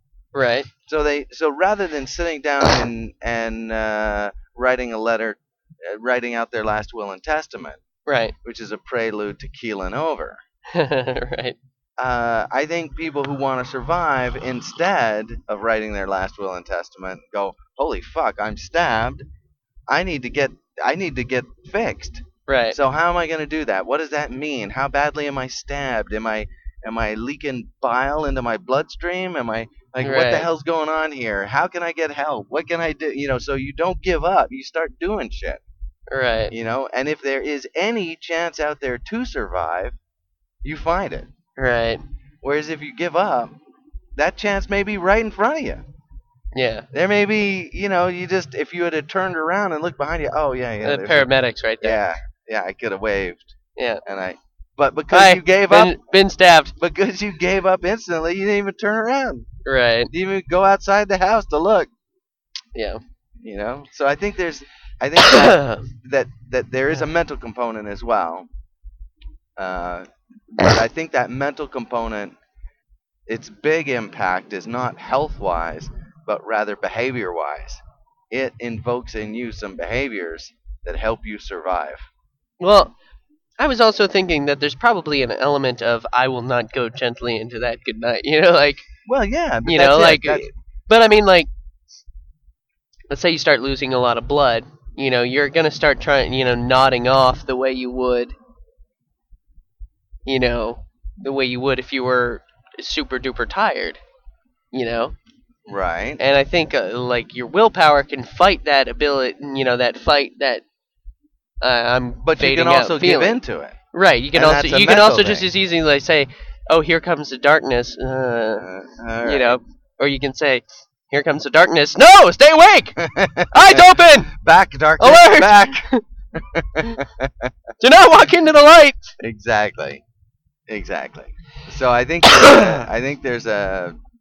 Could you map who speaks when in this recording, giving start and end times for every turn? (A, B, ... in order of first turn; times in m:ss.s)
0:00.3-0:00.7 A
0:00.9-0:07.8 B
0:08.1-0:08.4 A
0:08.4-0:10.4 B
0:10.7-0:11.6 A
0:12.0-0:19.2 B
0:19.9-0:35.6 B
0:22.5-0:22.8 A
0:30.0-0:30.5 A
0:36.1-0:36.5 A
0:36.5-0:40.0 B
0:40.6-0:41.3 B
0:41.6-0:42.0 A
0:42.4-0:43.6 B
0:44.2-0:45.8 B
0:46.6-0:46.9 A
0:46.9-0:56.0 B
0:50.8-0:52.0 A
0:53.8-0:54.0 A
0:55.1-0:56.7 A
0:56.8-0:59.5 B
0:59.6-1:00.1 A
1:00.1-1:01.9 B
1:02.8-1:03.0 A
1:03.4-1:08.5 B
1:05.2-1:05.9 A
1:09.6-1:12.4 B
1:13.3-1:22.1 B
1:22.6-1:23.0 A
1:23.6-1:28.9 A
1:29.1-1:30.5 B
1:29.6-1:31.5 A
1:33.1-1:38.3 A
1:40.2-1:44.0 A
1:44.7-1:45.1 A
1:45.7-1:46.2 B
1:46.2-1:50.6 A
1:51.6-1:53.4 A
1:52.2-1:53.8 B
1:53.9-1:58.7 A
1:54.3-1:55.5 B
1:58.6-1:59.6 B
1:59.2-2:04.3 A
2:03.0-2:07.5 B
2:05.0-2:06.0 A
2:07.8-2:09.2 A
2:09.2-2:10.0 B
2:10.7-2:14.0 B